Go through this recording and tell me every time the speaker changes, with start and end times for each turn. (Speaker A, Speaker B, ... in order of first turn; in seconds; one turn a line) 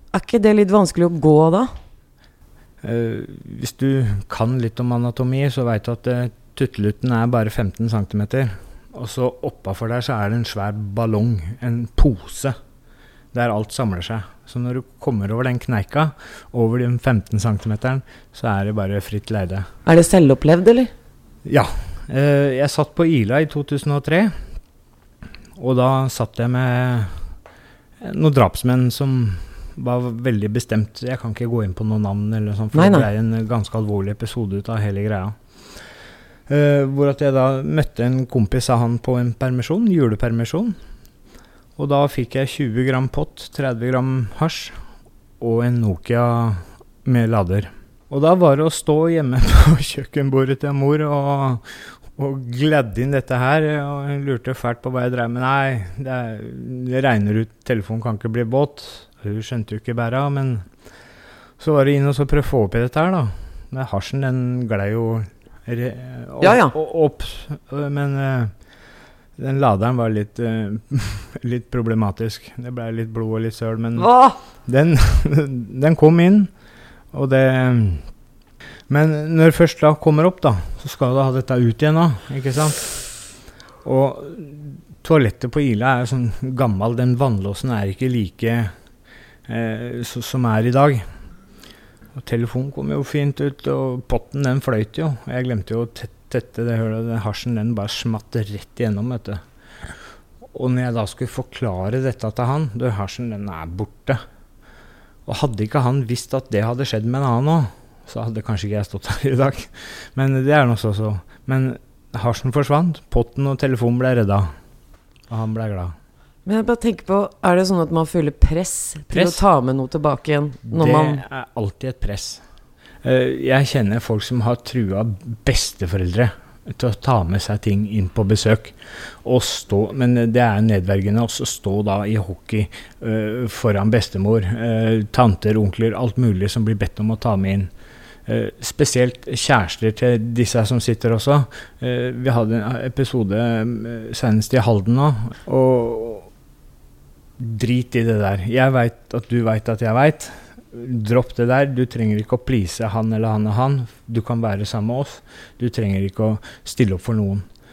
Speaker A: 0.1-1.7
Speaker B: 2.8-12.6
Speaker B: 13.3-19.6
Speaker A: 19.9-20.9
Speaker B: 21.4-24.3
Speaker B: 25.6-27.1
Speaker B: 28.0-35.4
Speaker A: 32.7-33.1
Speaker B: 36.5-40.7
Speaker B: 41.8-44.7
Speaker B: 45.4-51.6
Speaker B: 52.2-60.6
Speaker B: 61.6-68.5
Speaker A: 66.4-66.7
Speaker B: 69.4-74.1
Speaker A: 74.0-74.4
Speaker B: 74.6-76.5
Speaker B: 77.1-78.0
Speaker B: 78.9-82.9
Speaker B: 83.8-88.7
Speaker B: 89.5-91.0
Speaker B: 92.1-99.4
Speaker B: 100.5-104.2
Speaker B: 105.3-114.5
Speaker B: 115.3-115.9
Speaker A: 116.5-121.2
Speaker B: 119.1-119.4
Speaker B: 120.7-122.4
Speaker B: 123.0-137.7
Speaker B: 138.3-146.3
Speaker B: 147.4-157.4